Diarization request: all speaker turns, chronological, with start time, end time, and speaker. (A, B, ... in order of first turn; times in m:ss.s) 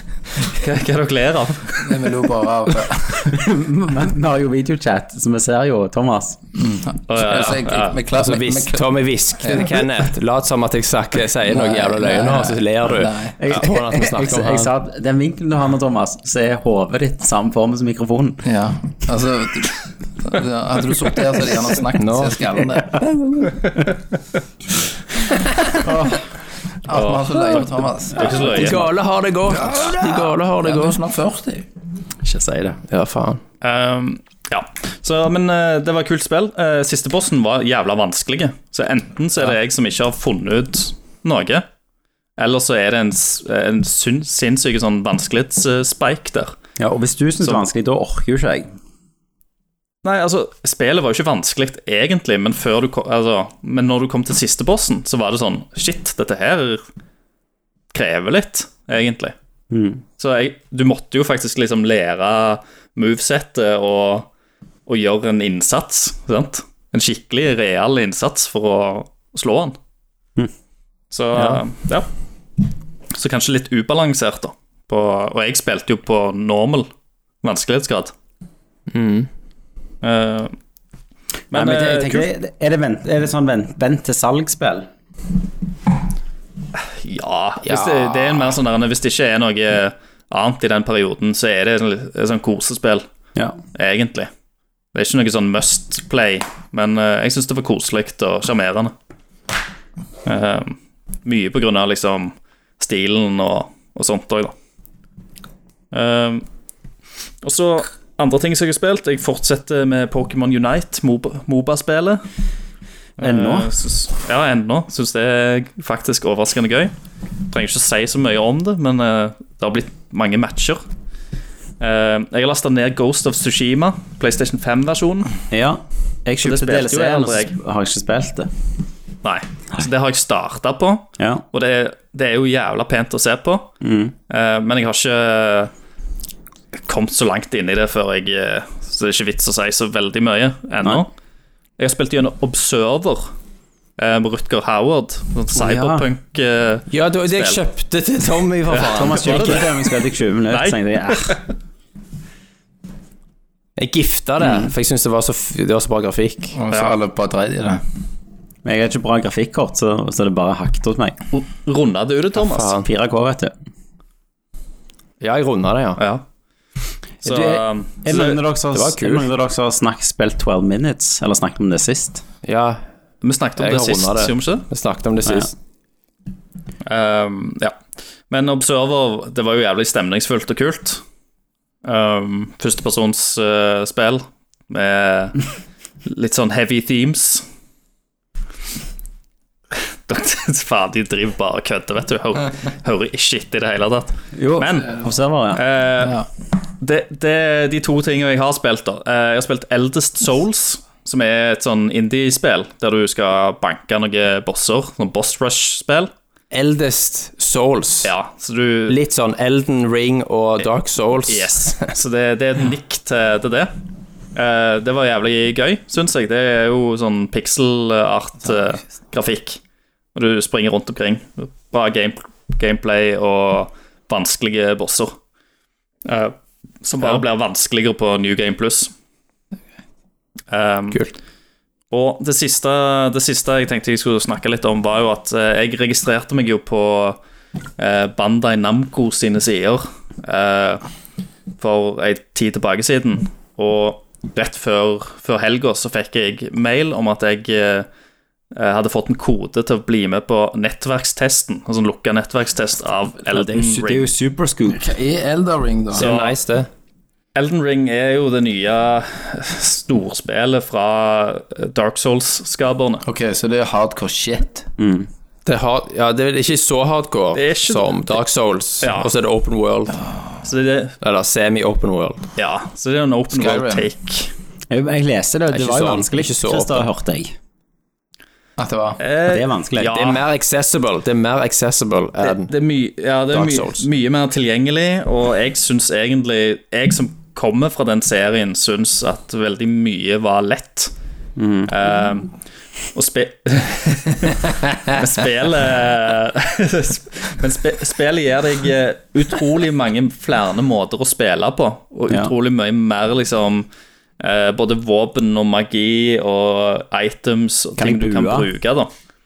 0:00.4-0:02.1 A
0:01.8-0:03.4 B
0:03.2-0:06.4 C
0:06.6-0:08.8 B
0:07.1-0:08.0 A
0:08.1-0:14.7 D
0:09.4-0:10.0 B
0:11.5-0:13.4 B
0:13.4-0:18.4 C
0:18.4-0:23.1 B
0:22.0-0:22.4 D
0:25.8-0:26.2 C
0:26.8-0:28.8 B
0:26.9-0:28.8 A
0:28.3-0:31.0 D
0:29.5-0:31.6 B
0:32.6-0:33.4 D
0:33.6-0:41.6 A
0:42.4-0:46.6 A
0:46.8-0:48.7 C
0:50.0-0:56.8 A
0:57.9-0:59.3 A
0:59.7-1:00.0 C
1:00.2-1:04.3 A
1:04.9-1:09.8 A
1:11.1-1:12.1 A
1:11.3-1:11.6 C
1:13.1-1:16.9 A
1:17.4-1:18.1 A
1:18.9-1:19.3 D
1:20.0-1:20.5 A
1:21.5-1:22.3 A
1:21.5-1:24.9 C
1:26.8-1:33.0 A
1:27.6-1:28.5 D
1:33.7-1:34.3 A
1:34.9-1:38.9 A
1:40.2-1:44.5 A
1:45.9-1:46.4 A
1:47.4-1:52.2 A
1:53.2-1:56.9 A
1:53.2-1:53.7 C
1:57.5-2:00.8 A
2:01.8-2:05.4 A
2:05.5-2:08.5 C
2:06.4-2:07.5 A
2:09.2-2:13.7 A
2:11.2-2:11.4 C
2:13.8-2:14.1 C
2:14.3-2:15.7 A
2:16.8-2:21.1 A
2:21.8-2:23.3 A
2:24.0-2:27.6 A
2:25.5-2:26.0 C
2:26.9-2:29.7 D
2:28.7-2:31.4 C
2:28.7-2:29.7 A
2:30.5-2:31.4 A
2:33.8-2:36.6 D
2:36.5-2:37.8 B
2:36.7-2:37.0 A
2:38.6-2:41.2 C
2:41.3-2:42.8 A
2:42.4-2:42.9 D
2:42.8-2:43.5 C
2:45.2-2:46.0 D
2:46.0-2:46.2 A
2:47.2-2:48.4 A
2:47.2-2:52.2 C
2:48.1-2:49.3 D
2:52.4-2:52.8 D
2:53.2-2:54.6 A
2:53.6-2:55.5 D
2:56.8-2:57.7 A
2:58.3-3:01.0 A
3:01.8-3:05.4 A
3:06.0-3:07.4 A
3:10.1-3:15.0 A
3:14.3-3:15.6 C
3:15.5-3:16.2 A
3:16.8-3:26.1 A
3:26.5-3:28.1 D
3:28.0-3:29.0 A
3:28.9-3:31.9 D
3:31.3-3:33.7 A
3:34.3-3:39.6 A
3:40.1-3:45.2 A
3:46.0-3:48.9 A
3:50.5-3:51.0 A
3:51.9-3:57.2 A
3:57.8-4:00.8 A
4:01.6-4:07.9 A
4:08.5-4:14.0 A
4:13.3-4:14.8 C
4:14.7-4:16.1 B
4:15.9-4:16.3 A
4:15.9-4:16.7 D
4:17.3-4:23.0 A
4:23.0-4:24.6 B
4:24.8-4:25.1 C
4:25.4-4:30.0 D
4:27.3-4:28.2 A
4:28.8-4:29.1 A
4:30.4-4:30.9 A
4:31.0-4:32.2 D
4:32.4-4:34.3 A
4:33.3-4:33.8 B
4:34.7-4:37.3 C
4:35.5-4:36.9 D
4:38.6-4:39.0 B
4:39.0-4:40.2 A
4:39.2-4:40.0 C
4:39.8-4:42.5 D
4:42.2-4:50.9 A
4:43.3-4:43.8 D
4:51.4-4:51.7 C
4:51.7-4:52.3 A
4:52.9-5:03.7 A
5:04.2-5:08.9 A
5:07.8-5:08.5 C